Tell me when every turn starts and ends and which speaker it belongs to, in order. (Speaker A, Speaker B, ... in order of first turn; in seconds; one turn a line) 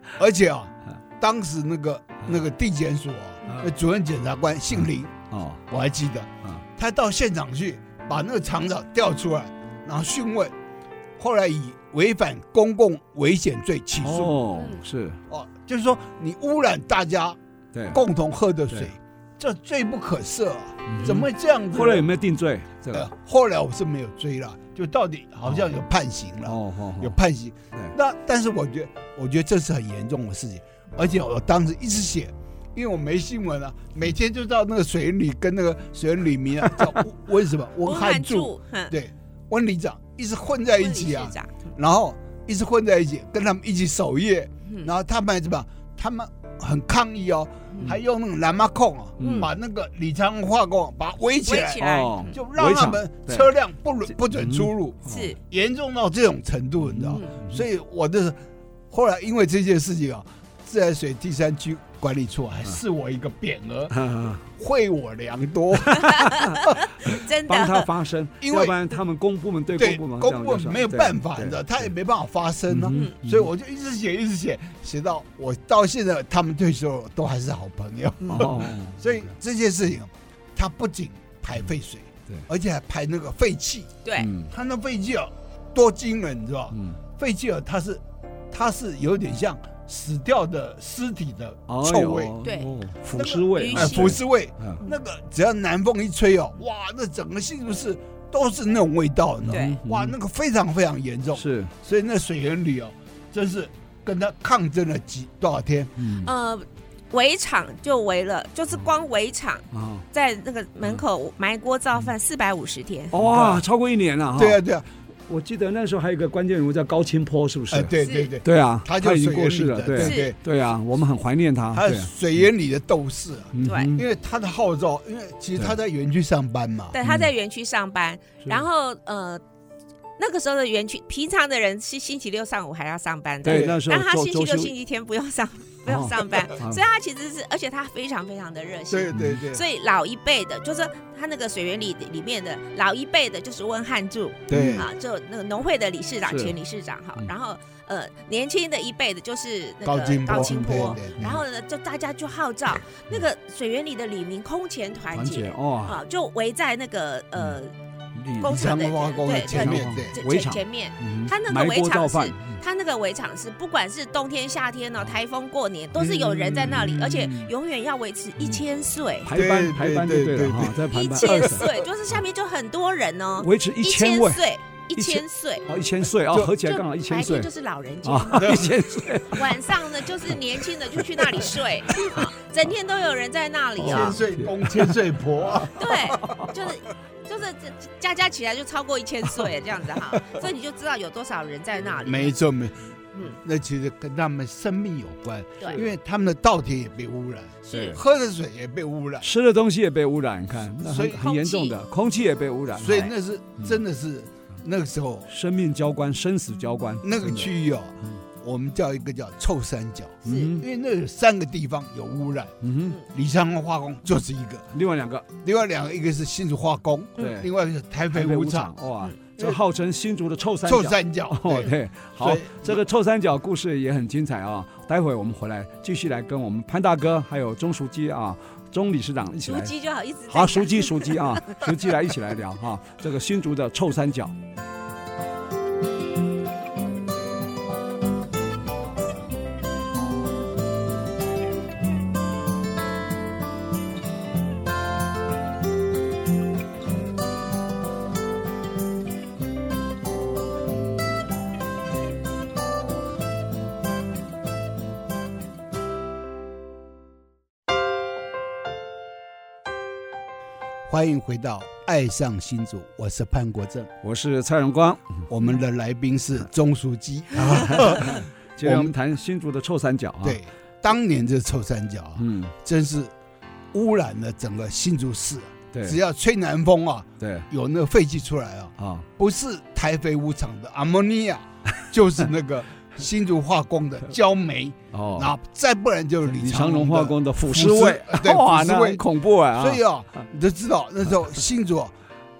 Speaker A: 0.1-10.5
Speaker B: 5.3-5.6
Speaker A: 11.2-14.4
Speaker B: 14.0-15.2
Speaker A: 15.3-17.4
Speaker B: 17.7-18.0
Speaker A: 17.9-22.1
Speaker B: 20.9-23.1
Speaker A: 22.9-58.4
Speaker B: 26.4-27.1
Speaker C: 37.8-38.9
Speaker C: 40.7-41.7
Speaker B: 49.2-49.5
Speaker C: 49.2-49.5
Speaker C: 51.5-52.4
Speaker B: 51.8-53.5
Speaker B: 54.4-55.3
Speaker C: 55.0-55.4
Speaker B: 56.9-57.6
Speaker C: 57.1-57.4
Speaker A: 58.9-66.7
Speaker B: 63.9-64.4
Speaker B: 65.9-66.5
Speaker C: 66.0-67.9
Speaker B: 67.0-71.6
Speaker A: 68.4-68.9
Speaker A: 69.7-83.9
Speaker B: 72.7-73.5
Speaker B: 78.2-79.0
Speaker B: 84.2-84.5
Speaker A: 84.5-92.3
Speaker B: 86.7-87.0
Speaker B: 91.7-94.8
Speaker C: 92.4-92.7
Speaker A: 93.1-105.9
Speaker C: 93.5-94.1
Speaker B: 99.4-100.1
Speaker C: 99.5-99.8
Speaker B: 101.3-101.7
Speaker B: 106.0-106.3
Speaker C: 106.2-113.1
Speaker B: 109.7-110.0
Speaker B: 113.1-114.6
Speaker A: 113.2-113.6
Speaker A: 114.3-114.9
Speaker B: 115.3-122.1
Speaker A: 117.7-120.4
Speaker C: 118.0-118.3
Speaker C: 120.0-120.3
Speaker A: 121.7-127.0
Speaker B: 123.5-124.0
Speaker C: 123.6-124.0
Speaker C: 126.9-129.4
Speaker B: 127.0-127.3
Speaker C: 130.2-157.7
Speaker B: 133.4-134.7
Speaker A: 133.4-133.8
Speaker B: 135.8-136.8
Speaker A: 138.9-139.6
Speaker B: 139.1-139.4
Speaker A: 144.5-144.9
Speaker B: 144.5-144.8
Speaker B: 146.2-146.5
Speaker A: 149.8-151.4
Speaker B: 150.3-151.3
Speaker B: 155.1-156.0
Speaker B: 158.2-158.6
Speaker C: 158.3-169.3
Speaker A: 158.4-160.1
Speaker B: 159.5-162.6
Speaker A: 165.9-167.5
Speaker B: 169.2-171.7
Speaker A: 169.3-171.7
Speaker C: 170.9-175.7
Speaker B: 173.4-174.4
Speaker B: 174.9-177.5
Speaker C: 176.6-184.2
Speaker B: 178.0-180.4
Speaker A: 178.3-178.7
Speaker B: 180.9-182.2
Speaker A: 183.8-185.9
Speaker B: 183.8-185.0
Speaker B: 185.6-186.4
Speaker C: 185.7-192.3
Speaker A: 192.0-199.3
Speaker C: 197.7-198.0
Speaker B: 197.7-198.0
Speaker B: 199.2-203.8
Speaker A: 200.8-201.2
Speaker C: 201.1-201.8
Speaker A: 202.7-205.3
Speaker B: 205.3-207.5
Speaker A: 207.0-214.7
Speaker C: 210.2-210.5
Speaker B: 210.2-210.7
Speaker B: 212.6-213.0
Speaker B: 214.7-215.3
Speaker A: 215.4-218.7
Speaker B: 217.2-217.5
Speaker B: 218.1-229.7
Speaker A: 220.6-222.9
Speaker C: 229.4-231.6
Speaker B: 230.3-234.3
Speaker A: 260.9-263.9
Speaker B: 264.0-265.2
Speaker A: 265.3-268.9
Speaker B: 267.8-270.4
Speaker A: 270.2-273.1
Speaker B: 272.2-272.5
Speaker A: 273.7-289.0
Speaker B: 277.2-277.5
Speaker B: 278.8-279.1
Speaker B: 284.9-285.3
Speaker B: 286.3-289.8
Speaker A: 289.5-291.9